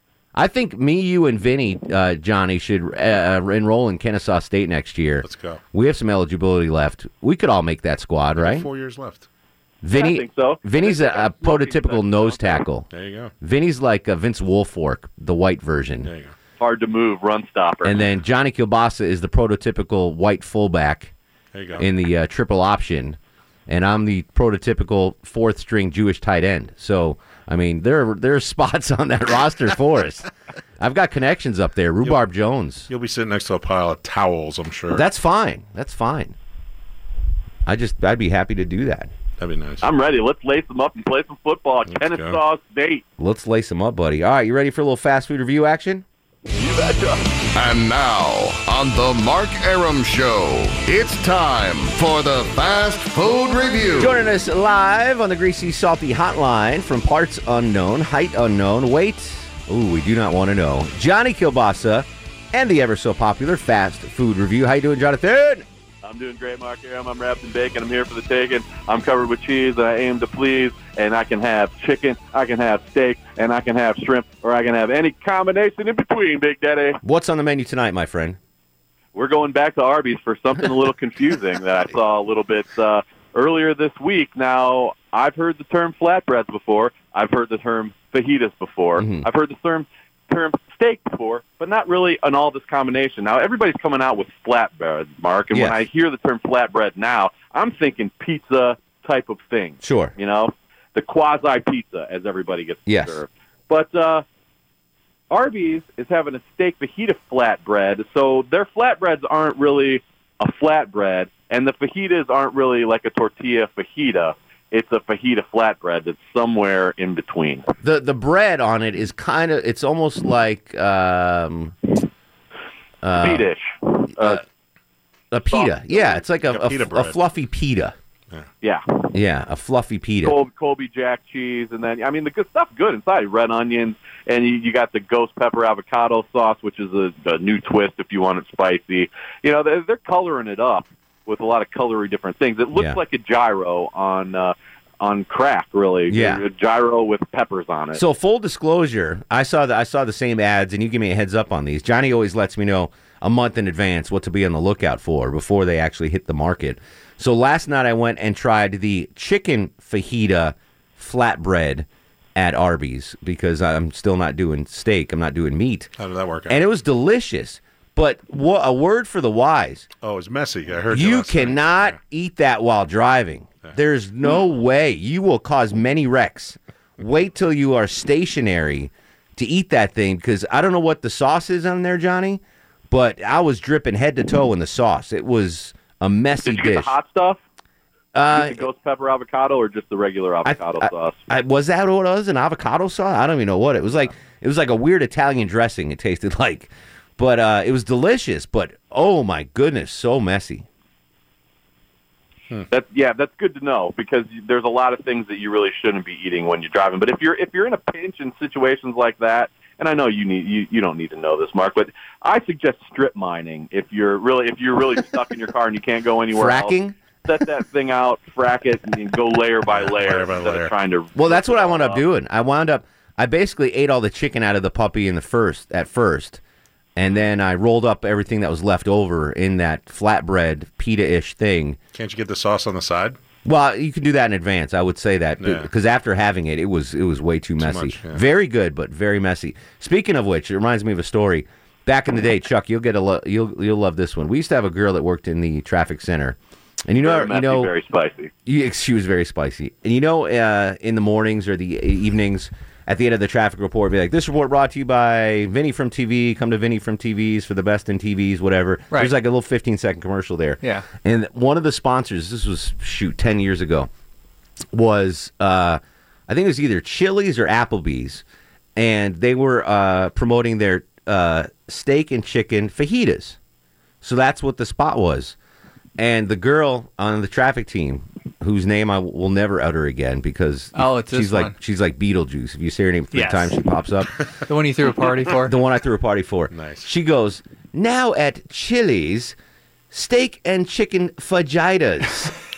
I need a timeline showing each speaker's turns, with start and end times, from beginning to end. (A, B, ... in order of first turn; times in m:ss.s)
0:00.3-0:08.7 A
0:05.2-0:05.6 B
0:08.4-0:09.3 B
0:09.8-0:12.9 A
0:09.9-0:12.6 C
0:12.9-0:13.3 B
0:13.4-0:16.1 A
0:16.0-0:16.3 B
0:16.6-0:18.0 C
0:17.8-0:21.1 A
0:21.5-0:21.8 B
0:21.8-0:30.3 A
0:30.8-0:32.9 A
0:32.9-0:35.0 B
0:34.9-0:36.4 A
0:37.6-0:39.1 A
0:39.4-0:39.9 B
0:39.8-0:43.0 C
0:41.9-0:42.4 B
0:43.2-0:46.0 A
0:46.5-0:47.2 C
0:47.6-0:54.2 D
0:54.0-1:05.6 A
1:06.0-1:17.0 C
1:17.0-1:18.4 A
1:19.1-1:44.2 C
1:29.0-1:29.3 A
1:35.5-1:35.8 A
1:39.8-1:40.1 A
1:42.8-1:43.2 A
1:45.3-1:57.7 C
1:57.8-2:01.7 A
2:03.0-2:03.4 A
2:03.2-2:04.4 C
2:05.3-2:07.9 A
2:05.5-2:06.2 C
2:06.4-2:07.2 B
2:09.1-2:10.4 A
2:10.2-2:28.0 C
2:22.7-2:23.0 A
2:26.1-2:26.4 A
2:28.0-2:45.9 A
2:46.0-2:46.6 B
2:46.5-2:49.9 A
2:50.0-2:52.0 B
2:50.9-3:06.9 A
3:06.4-3:07.4 C
3:08.1-3:08.6 A
3:08.3-3:11.2 C
3:10.4-3:20.6 A
3:22.7-3:42.0 C
3:36.3-3:37.0 A
3:39.7-3:40.7 B
3:41.1-3:46.4 A
3:47.0-3:51.8 A
3:51.9-3:53.2 B
3:53.4-4:07.7 A
3:55.4-3:55.7 B
3:57.6-3:58.2 B
4:07.0-4:08.3 C
4:08.4-4:23.9 A
4:24.7-4:28.2 A
4:28.8-4:33.4 A
4:34.0-4:35.4 A
4:36.0-4:44.1 A
4:40.7-4:41.5 E
4:43.1-4:43.6 E
4:44.5-4:45.5 E
4:45.4-4:49.4 A
4:46.5-4:46.9 B
4:49.9-4:52.3 A